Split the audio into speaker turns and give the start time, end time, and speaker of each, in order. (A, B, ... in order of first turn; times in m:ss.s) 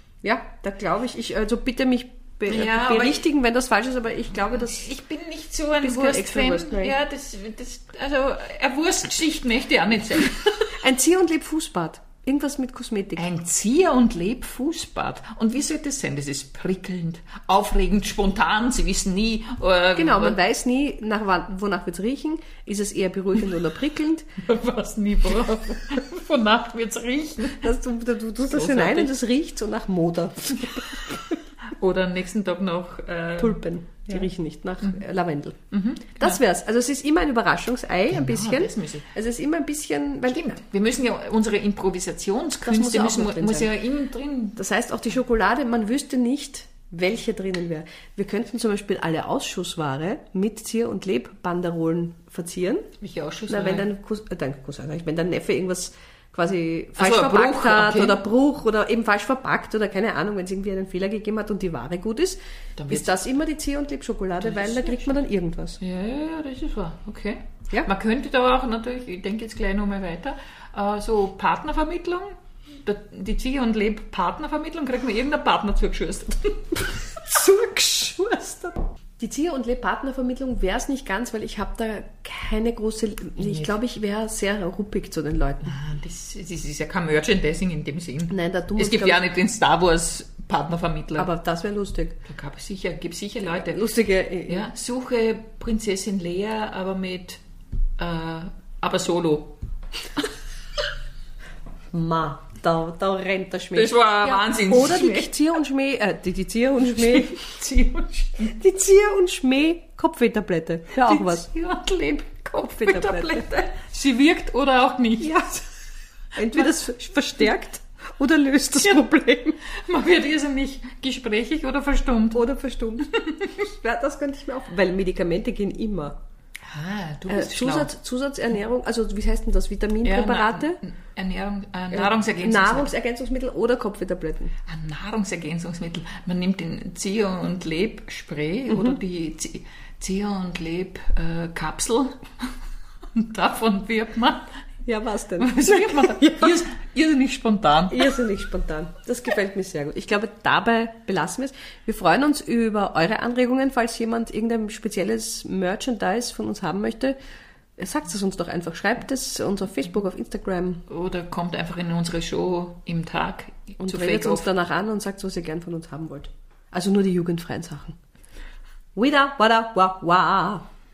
0:00.2-0:05.0 A
0:02.5-0:03.2 B
0:04.6-0:10.7 B
0:05.8-0:07.0 A
0:10.8-0:13.2 A
0:13.2-0:20.4 B
0:20.0-0:24.3 A
0:24.4-0:27.7 B
0:27.6-0:31.2 A
0:28.5-0:29.1 B
0:31.6-0:34.3 B
0:33.4-0:35.6 A
0:35.7-0:36.4 B
0:36.2-0:40.6 A
0:38.1-0:39.0 B
0:40.3-0:44.6 B
0:42.6-0:43.7 A
0:44.6-0:52.9 A
0:53.0-0:53.9 B
0:53.5-1:05.8 A
0:57.0-0:58.2 B
1:02.8-1:03.2 B
1:04.4-1:05.2 B
1:05.8-1:17.0 B
1:17.1-1:25.8 A
1:23.4-1:23.8 B
1:25.6-1:31.3 B
1:28.3-1:29.3 A
1:31.2-1:32.2 A
1:32.3-1:33.9 B
1:33.6-1:34.7 A
1:34.5-1:37.4 B
1:38.0-1:39.6 B
1:41.9-1:47.4 A
1:43.8-1:45.3 B
1:46.9-1:48.6 B
1:48.4-1:51.5 A
1:50.9-1:55.4 B
1:52.6-1:53.4 A
1:55.2-1:55.6 A
1:56.4-1:59.6 A
1:58.8-1:59.1 B
1:59.6-2:02.4 B
2:02.3-2:06.2 A
2:03.0-2:03.5 B
2:06.7-2:07.9 B
2:07.3-2:10.8 A
2:10.0-2:12.9 B
2:11.9-2:14.5 A
2:14.7-2:22.5 B
2:23.1-2:24.5 B
2:24.9-2:26.6 A
2:25.4-2:28.2 B
2:27.9-2:37.2 A
2:37.8-2:40.8 A
2:40.9-2:44.5 B
2:43.8-2:48.0 A
2:49.0-2:50.6 A